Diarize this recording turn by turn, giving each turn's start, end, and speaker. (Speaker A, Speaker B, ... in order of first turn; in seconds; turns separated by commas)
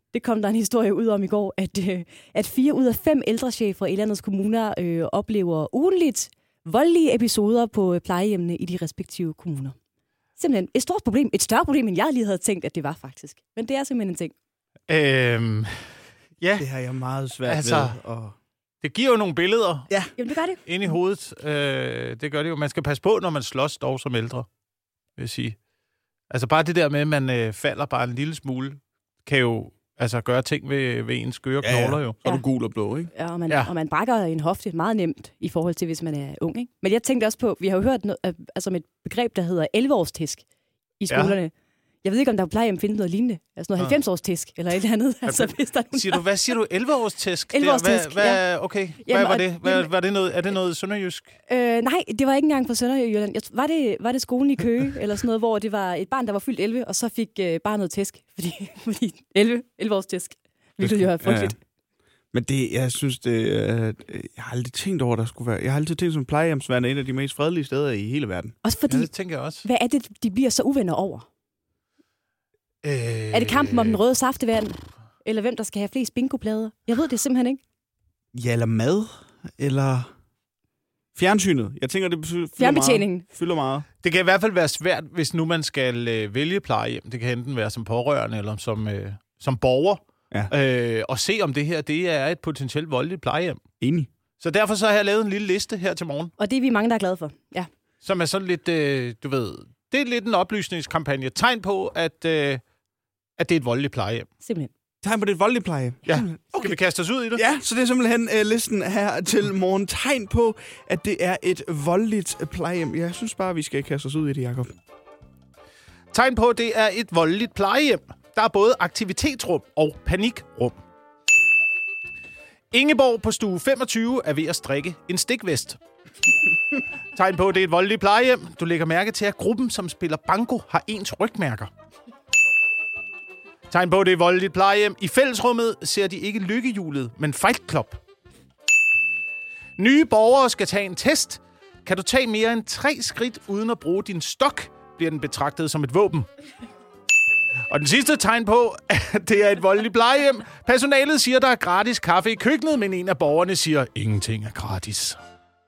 Speaker A: 0.1-9.8, Speaker A: 10.4-14.3, Speaker B: 14.9-15.7, Speaker B: 16.4-16.7, Speaker C: 16.6-18.3, Speaker B: 17.5-17.9, Speaker B: 18.8-19.9, Speaker A: 20.2-20.6, Speaker B: 20.6-24.4, Speaker B: 25.2-25.6, Speaker B: 26.3-32.2, Speaker C: 31.6-33.1, Speaker A: 33.1-40.4, Speaker A: 41.0-41.5, Speaker B: 41.1-41.4, Speaker A: 42.0-46.2, Speaker B: 45.2-51.3, Speaker A: 47.5-48.4, Speaker A: 49.0-49.9, Speaker A: 51.5-61.5, Speaker C: 60.8-61.5, Speaker C: 62.3-68.5, Speaker A: 68.6-69.1, Speaker B: 68.9-69.7, Speaker A: 69.6-71.3, Speaker B: 72.8-74.0, Speaker A: 73.3-77.6, Speaker C: 78.3-80.1, Speaker C: 81.2-83.8, Speaker A: 82.6-83.2, Speaker B: 84.0-93.6, Speaker C: 93.8-94.1, Speaker B: 94.4-96.3, Speaker A: 96.4-97.7, Speaker B: 98.0-102.6, Speaker B: 103.4-104.3, Speaker A: 104.4-104.7, Speaker C: 105.0-106.7, Speaker B: 106.0-107.4, Speaker C: 107.3-114.7, Speaker B: 116.1-120.8, Speaker B: 122.7-125.8, Speaker B: 127.1-131.7, Speaker B: 133.7-138.0, Speaker B: 139.8-146.2, Speaker B: 147.7-155.2